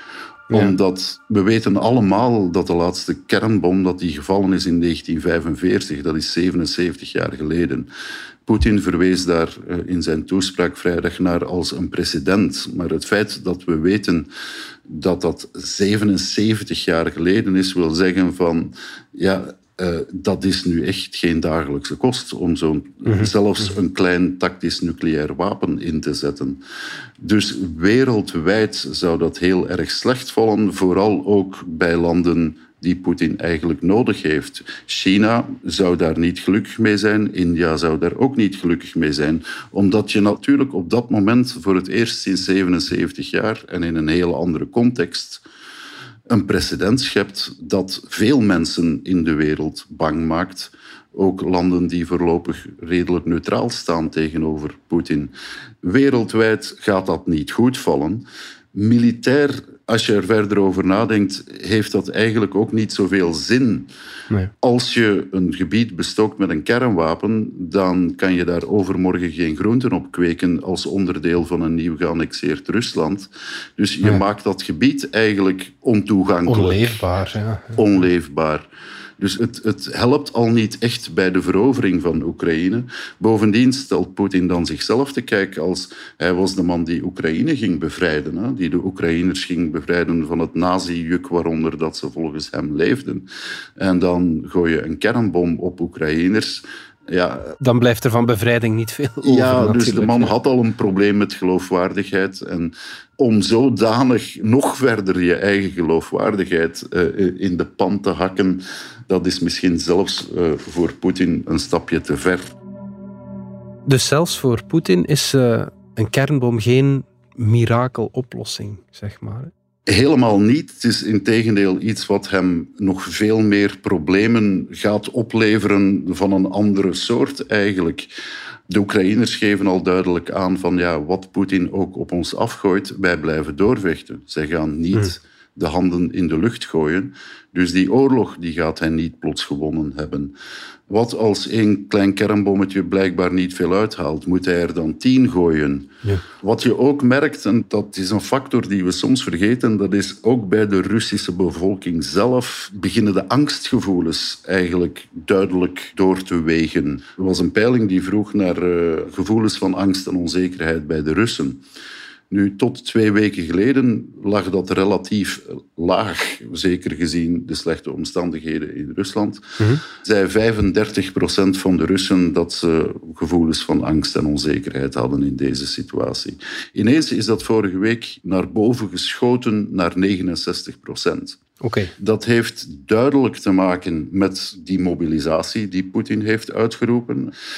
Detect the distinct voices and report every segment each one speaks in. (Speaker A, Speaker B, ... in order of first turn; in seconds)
Speaker A: 0.5-7.9, 8.4-14.3, 14.9-26.6, 27.2-45.4, 46.3-63.9, 64.6-77.0, 77.8-93.3, 93.8-97.6, 99.2-112.5, 119.9-128.1, 128.7-140.3, 140.9-161.6, 162.3-181.4, 182.0-187.3
Speaker B: 76.5-77.8, 97.6-100.3, 113.9-119.5, 181.6-181.9